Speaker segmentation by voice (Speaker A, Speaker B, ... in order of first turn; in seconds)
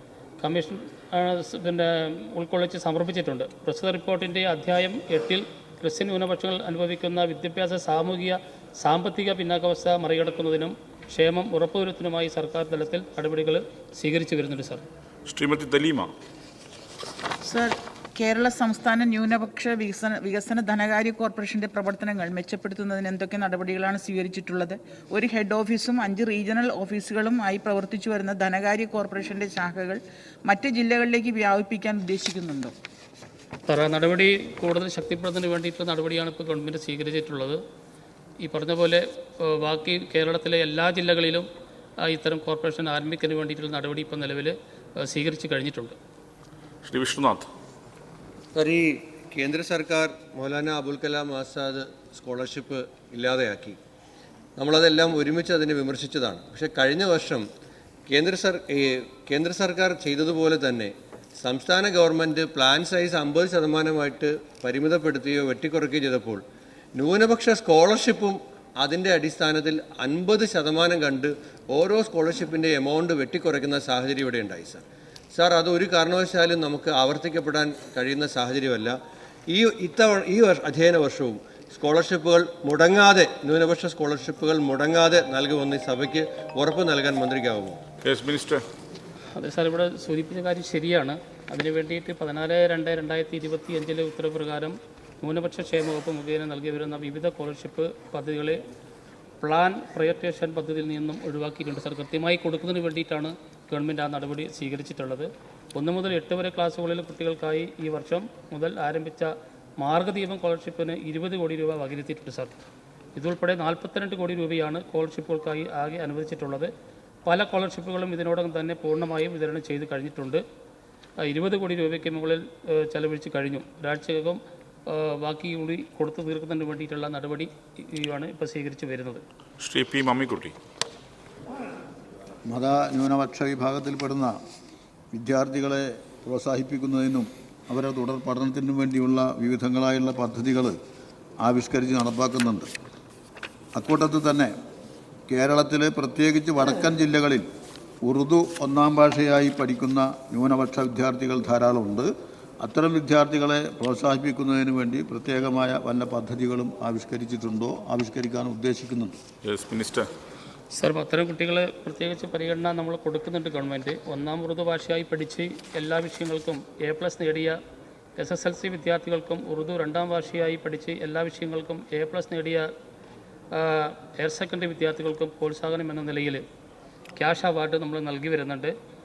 Speaker A: 0.4-14.8, 33.7-37.6, 38.4-41.5, 42.0-46.0, 89.3-98.6, 99.4-112.6, 113.2-116.7, 117.3-120.4, 121.2-129.2, 160.7-167.6, 168.2-172.7, 173.5-176.4, 177.2-178.8
Speaker B: 15.3-16.1, 46.9-47.5, 88.0-88.6, 129.6-130.6, 159.4-160.1
Speaker C: 17.4-32.7
Speaker D: 48.6-53.8, 54.6-57.4, 58.1-66.4, 67.0-74.8, 75.3-79.0, 79.5-87.8
Speaker E: 132.5-134.4, 135.1-140.8, 141.4-142.7, 143.8-144.5, 145.3-147.5, 148.0-152.1, 152.6-159.2